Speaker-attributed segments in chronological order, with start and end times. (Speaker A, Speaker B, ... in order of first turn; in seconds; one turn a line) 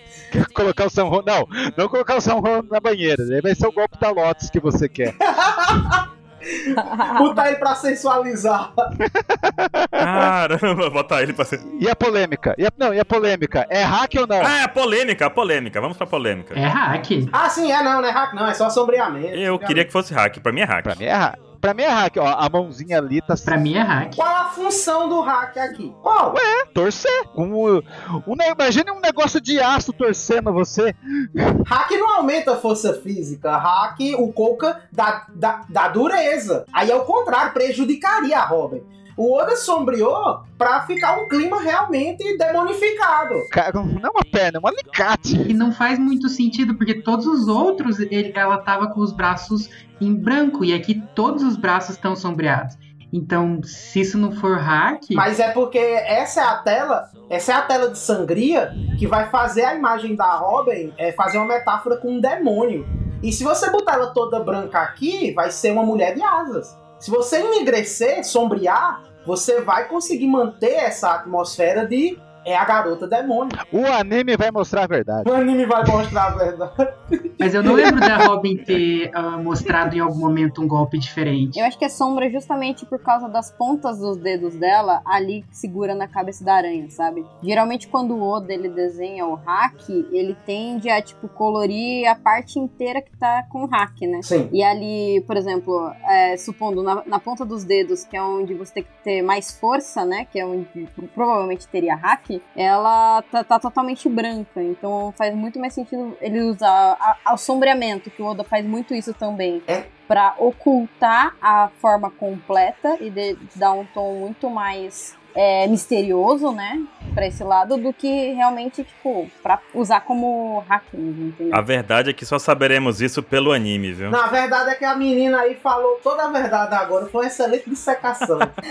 Speaker A: 0.3-5.2
Speaker B: 5.2-8.9
Speaker C: 6.8-7.4
Speaker A: 9.0-10.3
Speaker D: 10.0-11.6
Speaker A: 11.6-14.5
Speaker D: 14.4-16.6
Speaker E: 16.5-17.3
Speaker B: 17.3-19.9
Speaker D: 19.3-21.0
Speaker A: 20.8-23.5
Speaker E: 23.4-24.2
Speaker B: 24.2-26.4
Speaker A: 26.3-31.6
Speaker B: 31.6-43.5
Speaker A: 43.5-45.5
Speaker E: 45.3-55.3
Speaker B: 55.1-73.5
Speaker A: 73.6-75.3
Speaker B: 75.2-77.9
Speaker E: 77.4-81.7
Speaker C: 81.5-121.6
Speaker B: 94.2-94.5
Speaker D: 121.5-124.2
Speaker B: 124.1-128.5